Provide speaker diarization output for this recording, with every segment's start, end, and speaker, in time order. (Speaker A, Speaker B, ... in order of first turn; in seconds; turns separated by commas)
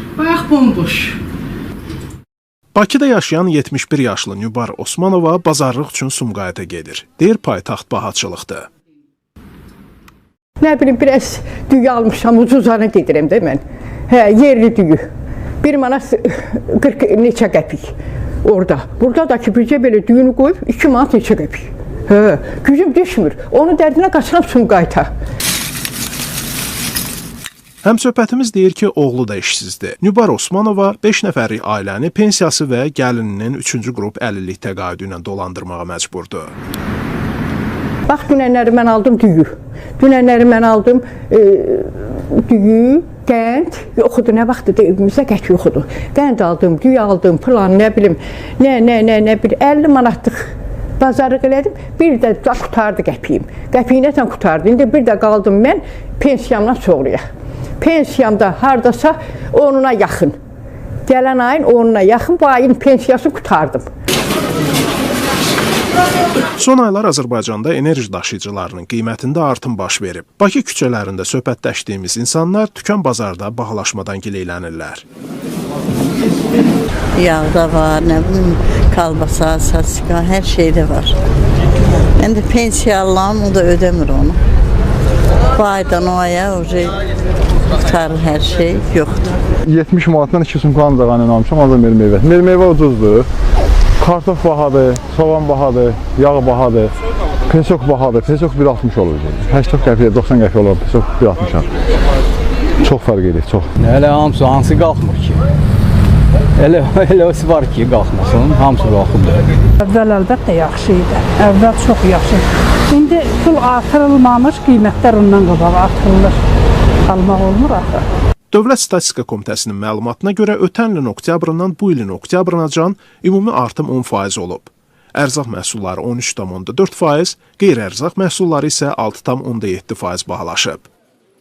Speaker A: 0.2-1.1, Speaker B: 2.7-8.7, Speaker A: 10.6-15.0, Speaker A: 15.6-17.9, Speaker A: 18.4-25.1, Speaker B: 27.8-36.5, Speaker A: 38.1-57.2, Speaker A: 57.8-60.3, Speaker A: 61.0-63.9, Speaker B: 66.6-75.0, Speaker C: 77.2-81.2, Speaker C: 82.2-84.4, Speaker C: 85.5-87.0, Speaker C: 87.8-89.2, Speaker D: 89.7-93.2, Speaker D: 94.0-96.9, Speaker D: 97.5-101.6, Speaker D: 102.8-103.7, Speaker E: 103.8-105.4, Speaker E: 106.6-109.5, Speaker F: 109.8-116.4, Speaker F: 117.1-118.0, Speaker B: 118.5-130.9